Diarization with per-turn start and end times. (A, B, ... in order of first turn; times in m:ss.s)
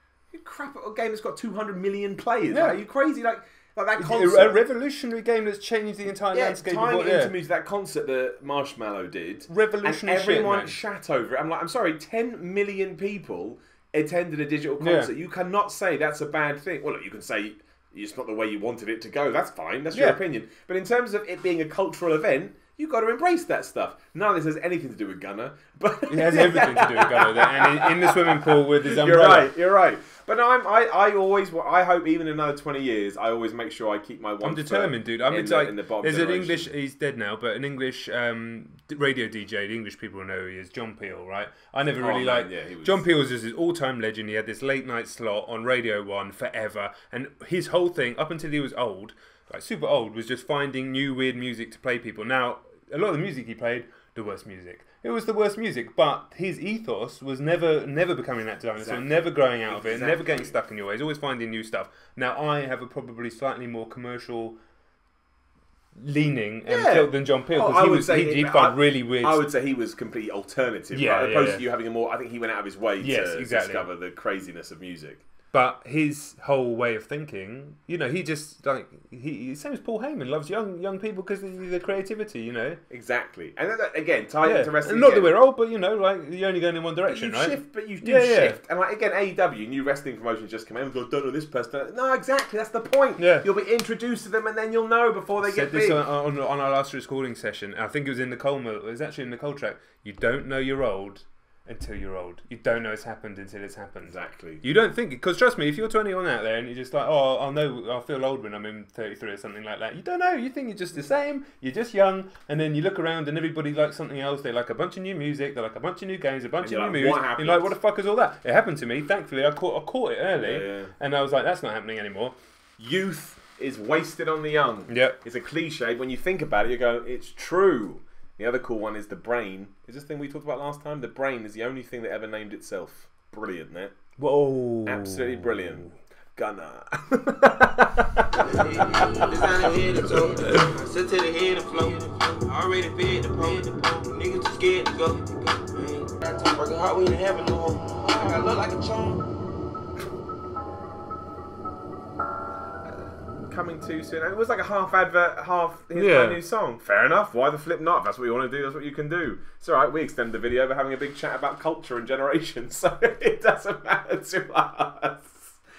0:00.3-0:04.6 A
0:02.5-0:02.8 B
0:04.0-0:07.3 B
0:06.3-0:36.7 A
0:09.5-0:10.7 B
0:14.8-0:15.1 B
0:19.9-0:20.2 B
0:26.1-0:29.5 B
0:34.4-1:04.6 B
0:42.0-0:43.0 A
0:58.8-1:00.5 A
1:06.0-1:09.4 B
1:06.6-1:15.2 A
1:10.9-1:11.6 B
1:13.0-1:13.9 B
1:15.5-1:22.8 B
1:22.9-1:25.3 A
1:24.4-1:28.6 B
1:27.1-1:36.0 A
1:33.2-1:33.5 B
1:35.4-2:02.4 B
1:44.0-1:44.6 A
1:56.6-1:57.7 A
2:00.4-2:00.9 A
2:02.8-2:13.9 A
2:04.9-2:05.2 B
2:14.2-2:15.9 B
2:14.8-2:18.8 A
2:17.4-2:18.6 B
2:18.4-2:29.2 C
2:33.3-2:45.6 A
2:35.9-2:36.4 B